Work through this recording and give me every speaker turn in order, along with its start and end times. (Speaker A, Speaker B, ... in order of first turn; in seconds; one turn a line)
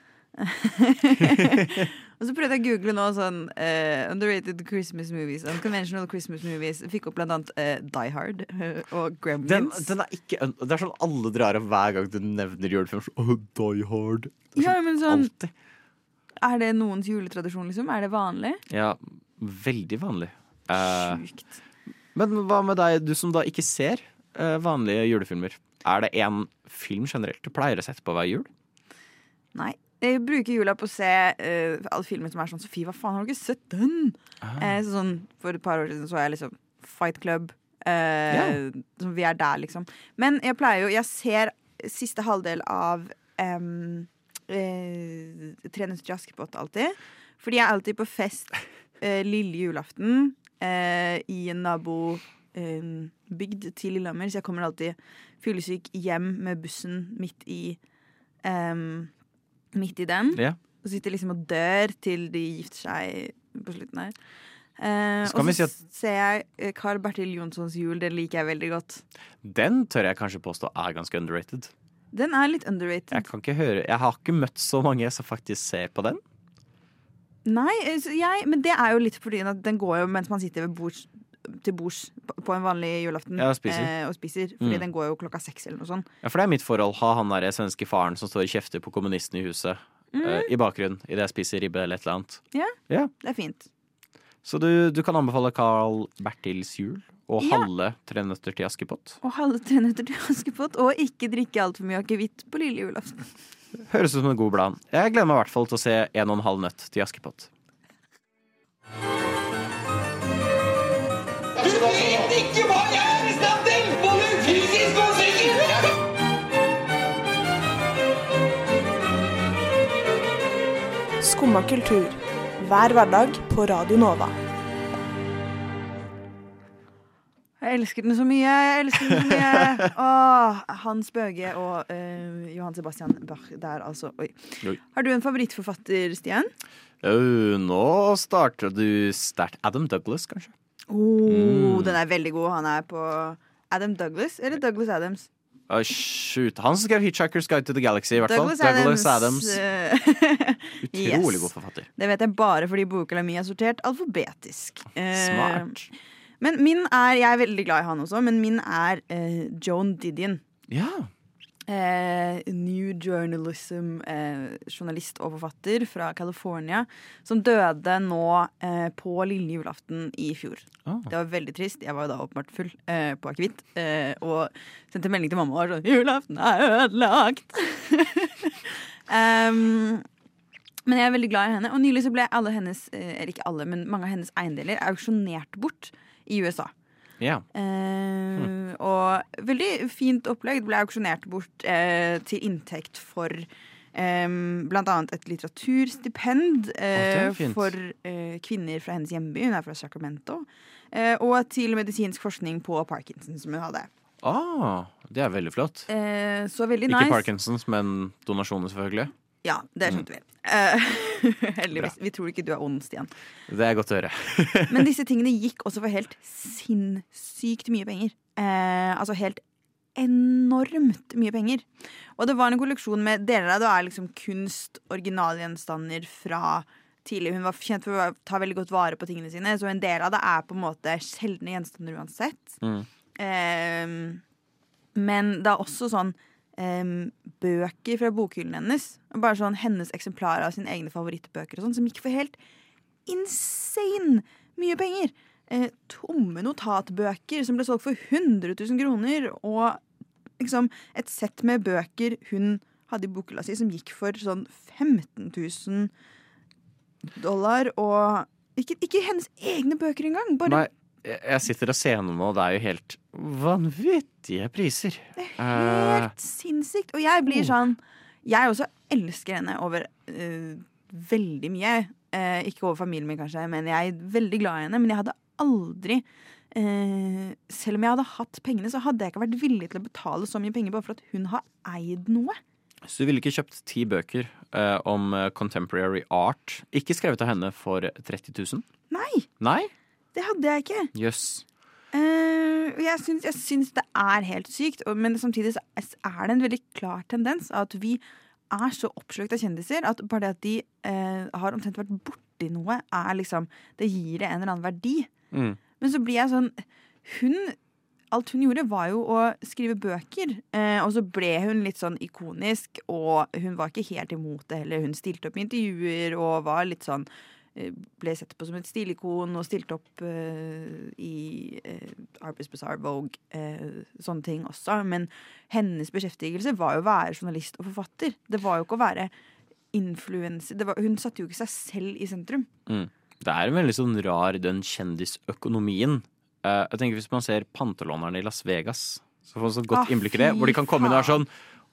Speaker A: 0.4-9.9
Speaker B: 9.4-15.5
Speaker A: 14.6-15.3
Speaker A: 16.4-18.6
Speaker B: 18.7-21.2
Speaker A: 20.8-21.5
Speaker B: 22.1-28.5
Speaker A: 29.6-57.8
Speaker B: 34.4-34.7
Speaker B: 38.3-38.6
Speaker A: 58.4-59.1
Speaker A: 59.7-64.1
Speaker A: 64.8-69.0
Speaker B: 65.2-65.7
Speaker B: 69.4-71.7
Speaker A: 72.1-73.3
Speaker B: 73.1-76.2
Speaker A: 77.5-86.1
Speaker B: 83.4-83.9
Speaker B: 86.2-93.1
Speaker A: 90.1-90.5
Speaker A: 92.5-93.7
Speaker B: 94.5-99.2
Speaker A: 97.4-97.7
Speaker A: 99.2-103.3
Speaker B: 103.9-107.5
Speaker C: 121.2-124.3
Speaker A: 127.6-136.5
Speaker B: 137.0-140.5
Speaker A: 140.9-145.3
Speaker B: 141.3-142.0
Speaker B: 145.7-149.6
Speaker A: 148.2-155.8
Speaker B: 150.8-151.9
Speaker B: 155.1-155.9
Speaker A: 156.4-160.4
Speaker B: 160.7-161.1
Speaker A: 161.7-180.1
Speaker B: 170.9-171.1
Speaker A: 180.9-186.7
Speaker B: 187.2-187.4
Speaker A: 187.5-203.9
Speaker B: 196.9-197.7
Speaker B: 204.2-205.9
Speaker A: 205.9-207.2
Speaker B: 206.9-209.1
Speaker A: 209.4-213.1
Speaker B: 213.5-214.8
Speaker A: 214.7-219.4
Speaker A: 220.0-221.7
Speaker A: 222.2-232.6
Speaker B: 232.6-232.9
Speaker A: 233.2-234.2
Speaker A: 234.9-242.4
Speaker A: 243.1-249.8
Speaker A: 250.4-255.9
Speaker A: 257.1-260.7
Speaker B: 260.5-266.1
Speaker A: 265.2-282.4
Speaker B: 267.3-267.5
Speaker B: 282.9-288.7
Speaker A: 288.9-289.3
Speaker B: 289.4-289.7
Speaker A: 290.1-290.9
Speaker B: 290.9-291.4
Speaker A: 291.9-305.1
Speaker B: 305.3-305.6
Speaker A: 305.8-307.6
Speaker A: 308.1-329.1
Speaker A: 329.7-332.5
Speaker B: 332.7-341.3
Speaker A: 339.7-341.2